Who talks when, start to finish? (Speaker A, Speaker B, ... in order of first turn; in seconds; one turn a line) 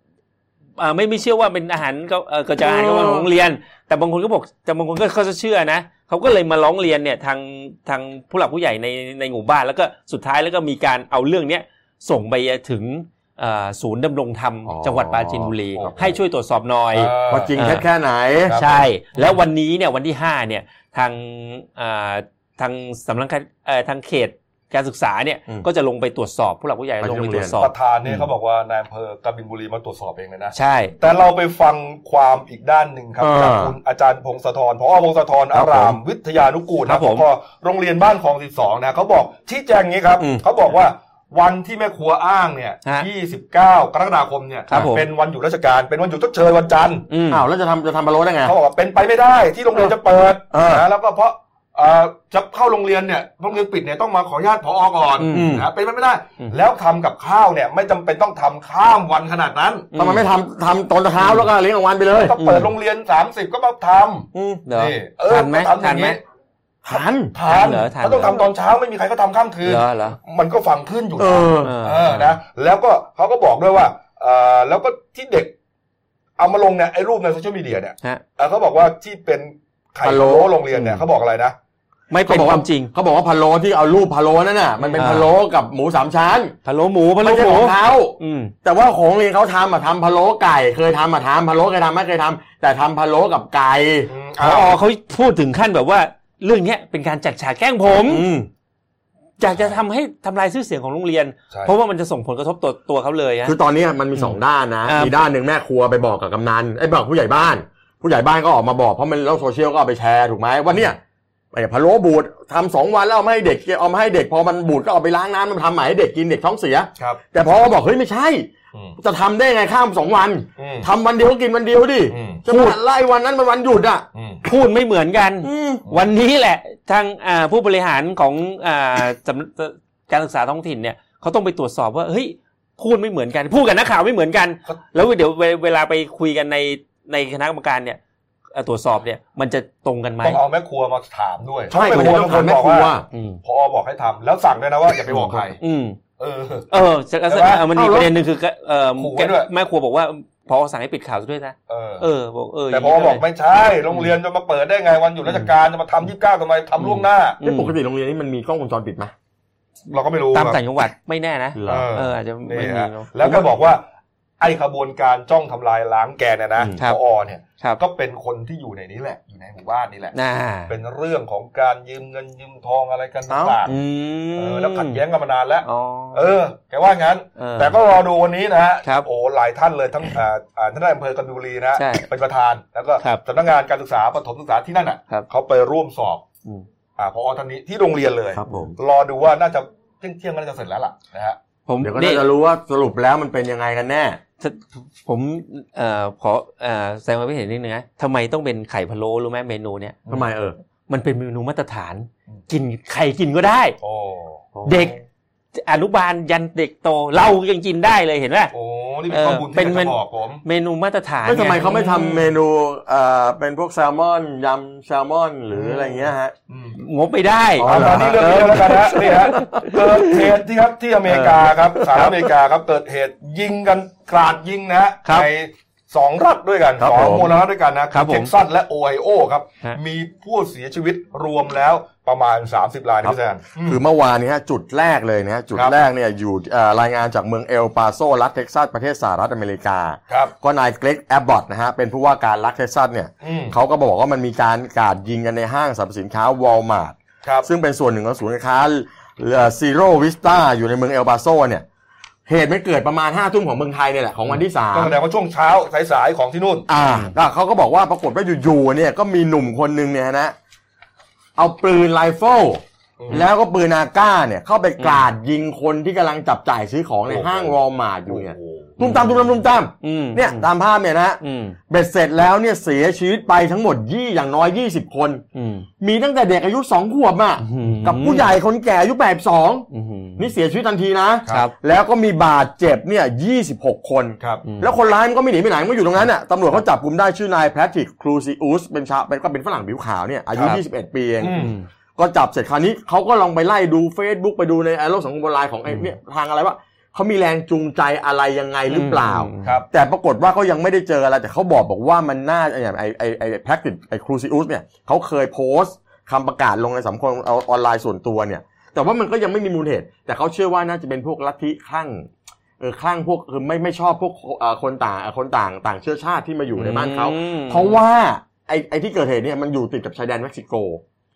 Speaker A: 0.8-17.9
Speaker B: 2.6-3.3
Speaker B: 14.7-16.2
Speaker C: 16.9-17.5
Speaker B: 17.3-18.6
Speaker C: 18.5-19.4
Speaker A: 18.5-27.7
Speaker B: 27.0-27.6
Speaker C: 27.6-47.1
Speaker A: 30.6-30.9
Speaker B: 33.2-33.8
Speaker B: 35.5-36.0
Speaker A: 36.9-37.3
Speaker A: 44.7-45.1
Speaker A: 47.1-47.4
Speaker B: 47.3-48.5
Speaker C: 48.4-59.9
Speaker B: 50.5-50.9
Speaker A: 55.2-55.5
Speaker B: 55.3-55.7
Speaker A: 59.9-60.3
Speaker B: 60.0-62.4
Speaker C: 62.1-66.2
Speaker A: 62.4-62.7
Speaker B: 64.3-64.6
Speaker A: 64.7-66.2
Speaker B: 66.8-67.3
Speaker C: 67.3-75.5
Speaker A: 67.5-68.4
Speaker A: 69.7-70.2
Speaker B: 71.2-71.8
Speaker A: 71.6-72.4
Speaker C: 76.4-81.5
Speaker B: 80.0-80.5
Speaker A: 80.7-81.0
Speaker A: 82.1-82.9
Speaker B: 82.2-86.6
Speaker A: 84.8-85.3
Speaker A: 86.7-88.5
Speaker B: 87.2-94.1
Speaker C: 94.1-94.8
Speaker A: 94.4-98.3
Speaker B: 98.0-98.5
Speaker A: 99.4-103.5
Speaker B: 103.5-111.0
Speaker A: 104.2-105.1
Speaker B: 111.5-124.0
Speaker C: 120.6-120.9
Speaker C: 122.1-122.5
Speaker A: 122.5-122.8
Speaker C: 124.2-124.4
Speaker A: 124.5-138.0
Speaker B: 125.4-125.8
Speaker A: 138.6-140.4
Speaker C: 140.2-145.6
Speaker B: 141.7-143.1
Speaker A: 141.9-142.3
Speaker A: 143.1-143.4
Speaker B: 145.1-145.4
Speaker A: 145.6-146.0
Speaker C: 146.2-146.7
Speaker A: 146.7-153.2
Speaker C: 147.3-147.7
Speaker B: 147.7-148.1
Speaker C: 149.0-149.5
Speaker C: 151.7-152.1
Speaker C: 152.7-157.4
Speaker A: 156.8-157.7
Speaker B: 157.4-159.1
Speaker C: 159.9-160.6
Speaker A: 160.3-163.3
Speaker B: 161.6-161.9
Speaker C: 161.7-163.8
Speaker C: 164.4-170.1
Speaker A: 170.1-170.7
Speaker C: 170.7-173.8
Speaker B: 173.3-173.6
Speaker A: 173.7-175.0
Speaker C: 174.4-186.2
Speaker A: 175.6-176.3
Speaker A: 177.4-177.8
Speaker A: 181.8-182.1
Speaker C: 187.0-191.4
Speaker B: 188.3-188.8
Speaker A: 191.7-192.2
Speaker B: 191.8-194.2
Speaker A: 194.4-200.2
Speaker B: 200.1-200.6
Speaker A: 200.9-203.8
Speaker C: 203.8-204.4
Speaker B: 204.6-205.0
Speaker A: 204.7-205.0
Speaker A: 205.6-208.5
Speaker C: 208.5-210.4
Speaker A: 209.1-212.3
Speaker B: 211.2-216.3
Speaker C: 215.5-216.8
Speaker A: 216.8-220.3
Speaker B: 217.6-220.1
Speaker C: 217.6-233.8
Speaker A: 221.1-222.3
Speaker B: 226.8-227.3
Speaker A: 227.9-228.3
Speaker B: 233.0-251.7
Speaker C: 235.5-235.8
Speaker C: 243.2-243.6
Speaker C: 247.2-247.5
Speaker B: 252.3-254.9
Speaker C: 254.7-256.7
Speaker B: 256.7-260.4
Speaker A: 256.8-257.1
Speaker B: 261.4-275.2
Speaker C: 263.0-263.3
Speaker A: 264.8-265.1
Speaker C: 267.1-268.8
Speaker A: 268.8-269.3
Speaker A: 269.8-270.5
Speaker A: 271.2-271.6
Speaker A: 275.3-275.7
Speaker B: 275.8-291.4
Speaker A: 277.4-278.3
Speaker A: 279.7-280.3
Speaker A: 281.3-281.5
Speaker A: 284.4-284.7
Speaker C: 291.2-291.5
Speaker A: 291.3-291.7
Speaker B: 292.0-320.8
Speaker A: 298.7-299.5
Speaker A: 316.6-317.8